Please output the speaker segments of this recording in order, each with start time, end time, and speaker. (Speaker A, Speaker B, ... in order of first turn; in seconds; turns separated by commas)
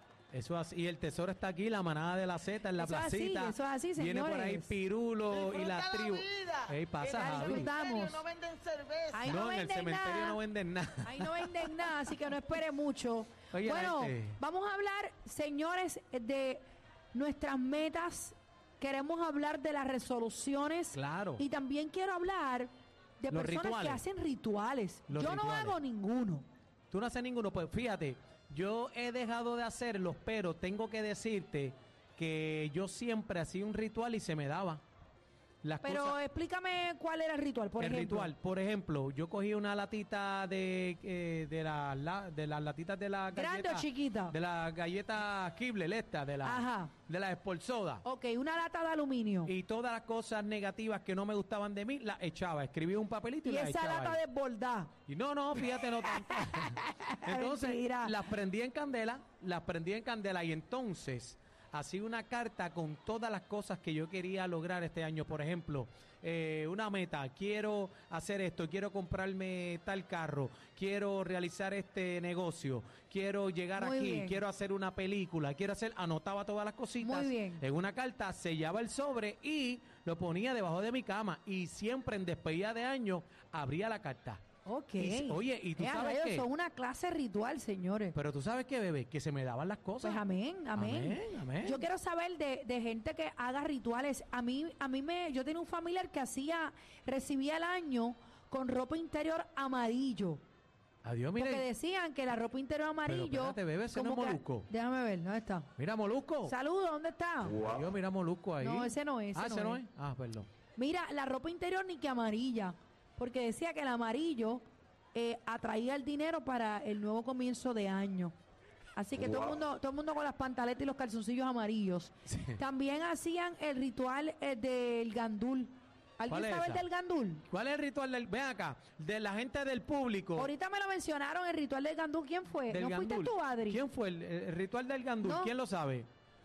Speaker A: 0.3-7.7, Speaker B: 2.7-4.7, Speaker C: 5.5-6.7, Speaker B: 7.0-8.3, Speaker C: 7.2-9.3, Speaker B: 9.1-10.4, Speaker A: 9.2-12.2, Speaker B: 11.0-16.6, Speaker A: 13.5-14.4, Speaker B: 17.1-26.5, Speaker A: 20.9-21.4, Speaker A: 23.3-24.0, Speaker A: 25.1-25.8, Speaker A: 26.9-34.8, Speaker A: 35.6-36.2, Speaker B: 35.8-38.3, Speaker A: 37.8-48.0, Speaker B: 43.3-44.3, Speaker B: 46.4-46.9, Speaker B: 48.0-49.5, Speaker A: 49.4-54.2, Speaker B: 53.4-54.9, Speaker A: 55.1-84.4, Speaker B: 55.7-58.2, Speaker B: 73.8-74.4, Speaker B: 77.0-77.6, Speaker B: 84.6-88.2, Speaker A: 85.0-86.5, Speaker A: 88.1-90.2, Speaker B: 90.0-100.4, Speaker A: 90.7-91.8, Speaker A: 101.0-101.7, Speaker B: 101.3-105.7, Speaker A: 103.0-104.7, Speaker A: 105.8-106.5, Speaker B: 106.4-107.6, Speaker A: 107.5-110.5, Speaker B: 108.6-109.8, Speaker B: 110.8-118.3, Speaker B: 119.0-127.4, Speaker A: 122.2-122.6, Speaker A: 126.3-126.8, Speaker A: 127.5-130.5, Speaker B: 130.3-133.8, Speaker A: 132.7-136.1, Speaker B: 135.2-135.5